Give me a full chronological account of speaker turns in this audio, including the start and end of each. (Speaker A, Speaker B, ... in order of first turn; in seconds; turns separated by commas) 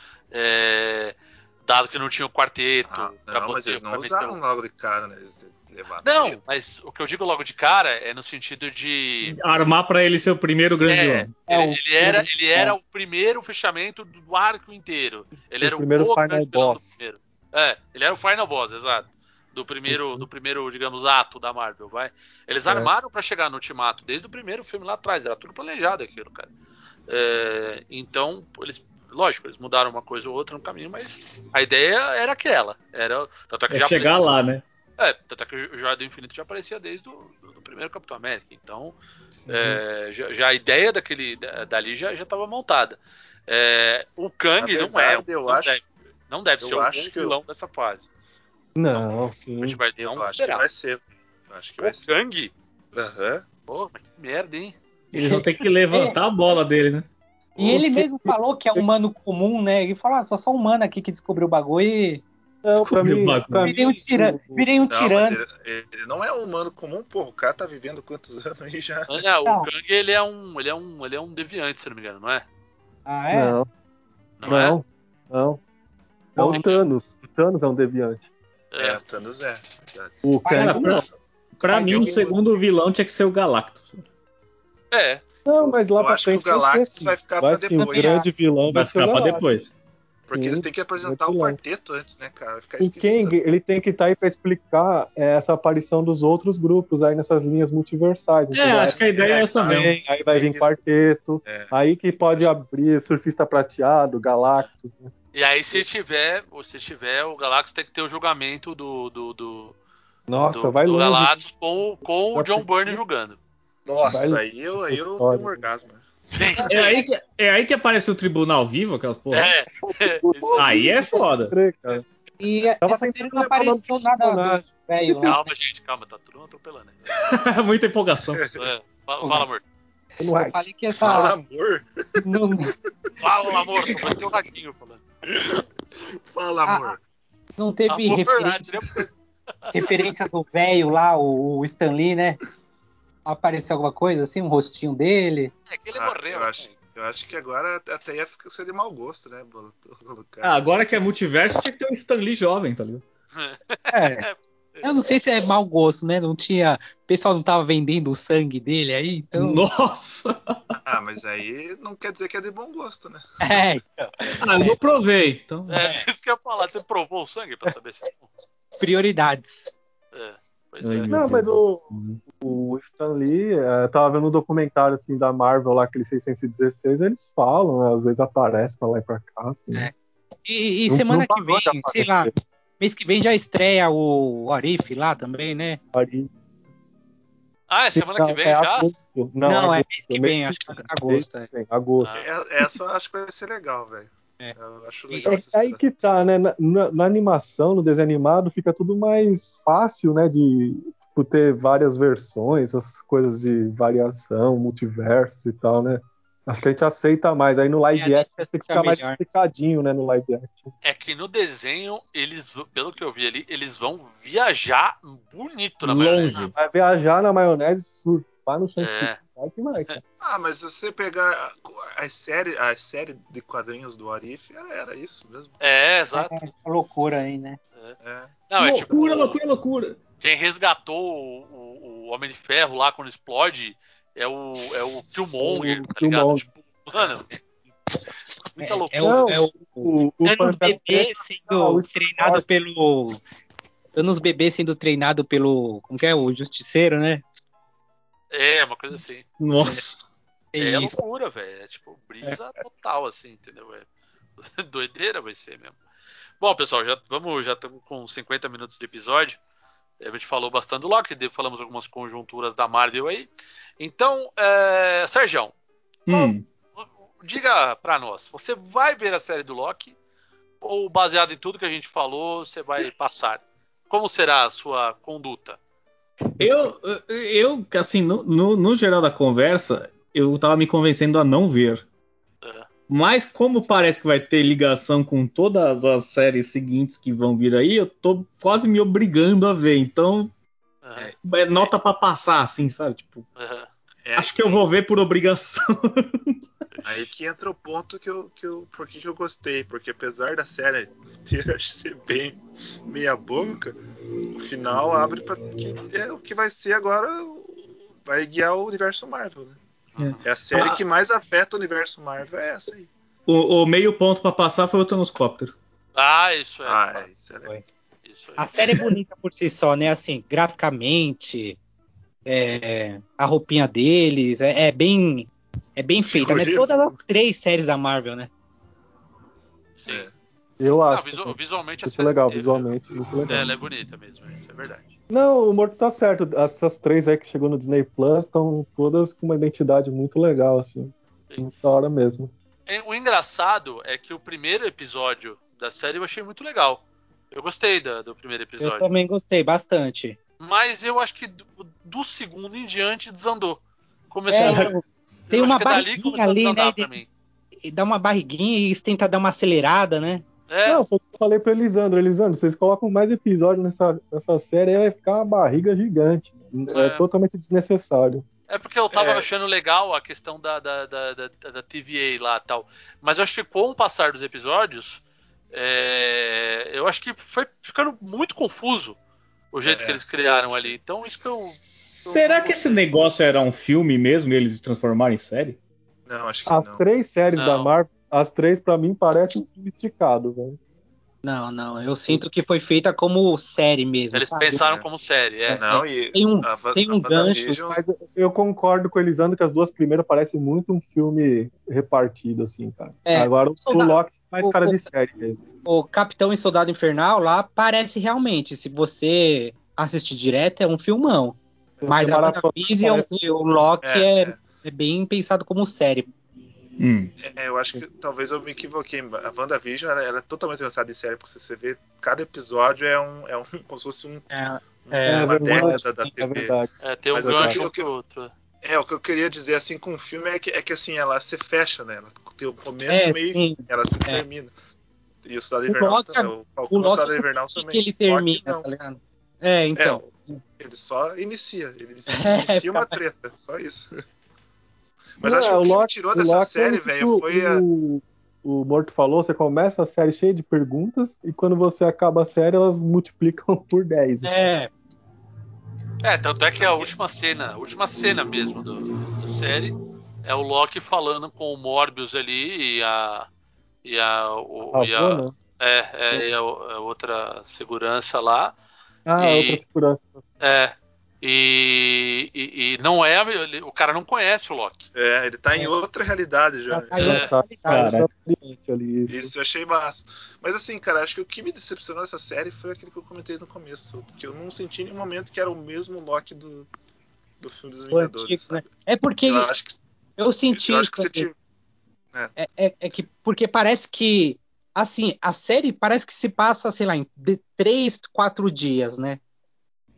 Speaker A: 0.3-4.4, Speaker B: 2.9-6.4, Speaker A: 6.0-9.4, Speaker C: 9.3-11.3, Speaker A: 10.8-26.5, Speaker D: 11.5-11.8, Speaker E: 11.6-12.8, Speaker E: 15.6-17.0, Speaker E: 19.9-20.3, Speaker E: 22.6-22.9, Speaker A: 27.1-34.3, Speaker C: 33.7-34.6, Speaker A: 35.0-39.0, Speaker E: 39.3-39.8, Speaker A: 39.5-48.1, Speaker B: 44.6-45.9, Speaker B: 46.6-47.4, Speaker E: 48.7-49.8, Speaker A: 48.9-50.6, Speaker B: 50.0-52.1, Speaker A: 51.8-52.5, Speaker B: 52.9-53.4, Speaker A: 53.7-54.8, Speaker C: 55.1-57.0, Speaker D: 55.9-56.2, Speaker E: 57.6-58.8, Speaker D: 57.6-62.2, Speaker E: 62.6-64.7, Speaker C: 62.8-63.7, Speaker D: 63.6-65.4, Speaker B: 64.9-69.2, Speaker A: 69.1-72.4, Speaker D: 73.0-73.6, Speaker E: 73.3-73.7, Speaker A: 74.4-74.8, Speaker E: 74.4-75.6, Speaker E: 76.3-78.3, Speaker D: 76.4-76.6, Speaker A: 76.4-76.8, Speaker A: 78.7-79.0, Speaker B: 78.8-80.3, Speaker E: 80.2-81.1, Speaker D: 80.4-81.0, Speaker C: 80.5-81.1, Speaker C: 81.6-84.0, Speaker D: 81.7-82.2, Speaker B: 81.7-82.4, Speaker E: 81.7-82.2, Speaker A: 84.9-85.2, Speaker E: 85.5-89.7, Speaker B: 85.6-88.2, Speaker D: 87.8-88.3, Speaker C: 88.7-89.7, Speaker B: 90.3-93.4, Speaker E: 90.3-91.6, Speaker E: 92.8-105.1, Speaker C: 98.5-99.9, Speaker B: 99.0-100.8, Speaker B: 101.4-101.7, Speaker A: 105.3-109.7, Speaker E: 110.3-111.4, Speaker A: 110.5-113.4, Speaker E: 112.3-113.0, Speaker B: 113.8-116.0, Speaker E: 114.0-115.7, Speaker A: 116.3-117.0, Speaker C: 116.7-119.5, Speaker A: 119.3-120.8, Speaker E: 119.8-122.0, Speaker C: 120.5-121.5, Speaker D: 122.4-125.5, Speaker E: 122.8-125.3, Speaker A: 125.2-127.0, Speaker C: 127.2-128.4, Speaker B: 128.3-128.7, Speaker A: 128.5-129.6, Speaker D: 129.2-129.5, Speaker E: 130.2-130.6, Speaker D: 130.3-131.3, Speaker B: 131.0-132.2, Speaker D: 132.2-132.7, Speaker A: 133.2-135.0, Speaker B: 133.8-134.2, Speaker B: 135.2-135.6, Speaker B: 136.3-137.0, Speaker D: 136.7-136.9, Speaker D: 137.6-138.8, Speaker A: 137.9-139.1, Speaker D: 139.7-142.4, Speaker D: 143.2-145.5, Speaker A: 145.7-146.7, Speaker B: 145.9-150.6, Speaker C: 150.4-153.0, Speaker A: 153.3-155.0, Speaker D: 153.9-154.2, Speaker D: 154.8-159.6, Speaker C: 159.3-160.6, Speaker B: 160.8-163.2, Speaker D: 163.4-164.8, Speaker C: 164.4-165.8, Speaker A: 165.7-168.3, Speaker D: 165.8-166.0, Speaker D: 168.8-169.7, Speaker A: 170.1-171.2, Speaker C: 170.8-172.2, Speaker E: 171.1-179.9, Speaker D: 180.4-185.8, Speaker E: 180.9-182.3, Speaker E: 185.9-186.3, Speaker A: 187.7-188.9, Speaker E: 187.9-192.1, Speaker D: 189.4-191.5, Speaker A: 192.0-192.3, Speaker B: 192.1-196.1, Speaker D: 195.1-195.4, Speaker E: 195.2-210.7, Speaker D: 207.9-209.2, Speaker A: 210.8-216.5, Speaker C: 215.8-216.5, Speaker E: 216.5-220.0, Speaker A: 218.8-219.2, Speaker B: 220.2-225.6, Speaker A: 225.6-226.3, Speaker D: 226.1-227.6, Speaker B: 228.0-228.3, Speaker A: 228.5-229.4, Speaker C: 228.6-230.0, Speaker A: 230.2-237.3, Speaker E: 235.4-236.5, Speaker A: 238.6-239.4, Speaker D: 238.6-243.2, Speaker E: 239.0-242.4, Speaker D: 243.9-247.2, Speaker A: 248.3-249.2, Speaker C: 249.4-250.1, Speaker D: 250.5-250.9, Speaker A: 250.6-253.8, Speaker A: 254.4-255.8, Speaker A: 256.4-259.4, Speaker A: 260.0-265.5, Speaker C: 266.1-266.4, Speaker A: 266.1-269.9, Speaker A: 270.6-275.6, Speaker C: 276.4-281.8, Speaker A: 282.4-282.7, Speaker C: 282.9-290.3, Speaker A: 290.8-291.6, Speaker C: 291.2-293.2, Speaker A: 293.4-293.7, Speaker B: 294.0-294.6, Speaker C: 294.1-296.5, Speaker A: 296.7-297.0, Speaker B: 296.8-303.8, Speaker B: 304.3-309.6, Speaker A: 309.9-310.2, Speaker C: 310.0-310.8, Speaker B: 310.2-312.9, Speaker C: 313.3-315.5, Speaker A: 315.9-317.1, Speaker B: 316.6-317.5, Speaker A: 318.0-318.4, Speaker D: 318.4-321.6, Speaker D: 322.2-328.3, Speaker B: 326.1-326.9, Speaker A: 329.8-332.7, Speaker B: 329.9-330.1, Speaker E: 330.6-333.5, Speaker A: 333.3-334.9, Speaker E: 335.1-342.3, Speaker A: 342.7-348.9, Speaker D: 348.6-350.2, Speaker A: 350.4-353.6, Speaker A: 354.1-354.7, Speaker D: 354.3-357.0, Speaker A: 355.3-357.1, Speaker D: 357.6-360.2, Speaker A: 360.5-360.8, Speaker E: 360.6-368.2, Speaker A: 366.7-367.1, Speaker A: 368.5-375.0, Speaker B: 368.9-369.3, Speaker A: 375.5-379.0, Speaker A: 379.5-382.9, Speaker B: 379.6-380.8, Speaker C: 381.6-385.6, Speaker B: 386.1-386.8, Speaker E: 386.5-390.6, Speaker A: 387.4-387.7, Speaker D: 391.2-394.6, Speaker A: 394.1-395.6, Speaker B: 394.6-394.8, Speaker D: 395.5-397.6, Speaker B: 395.6-397.8, Speaker E: 397.6-405.4, Speaker D: 403.1-404.8, Speaker D: 405.7-416.1, Speaker E: 411.8-413.1, Speaker B: 413.8-414.4, Speaker C: 416.8-417.1, Speaker B: 417.2-426.5, Speaker D: 424.3-426.1, Speaker E: 425.1-426.7, Speaker A: 426.8-428.3, Speaker B: 427.1-427.9, Speaker E: 427.2-427.6, Speaker B: 428.6-434.5, Speaker D: 432.9-434.2, Speaker B: 435.2-438.6, Speaker D: 435.7-440.4, Speaker B: 439.7-443.9, Speaker D: 442.1-442.9, Speaker B: 445.2-447.6, Speaker E: 445.2-454.4, Speaker D: 454.2-454.7, Speaker A: 456.0-463.3, Speaker B: 456.6-456.9, Speaker A: 463.8-468.6, Speaker E: 464.7-465.3, Speaker E: 469.1-470.3, Speaker A: 469.2-469.6, Speaker A: 470.4-474.9, Speaker B: 474.9-476.9, Speaker D: 476.7-477.9, Speaker E: 477.0-479.3, Speaker A: 477.0-477.3, Speaker C: 477.7-478.1, Speaker B: 479.1-486.7, Speaker B: 487.4-489.8, Speaker D: 487.9-489.5, Speaker D: 490.2-491.3, Speaker B: 490.5-491.3, Speaker D: 492.4-499.2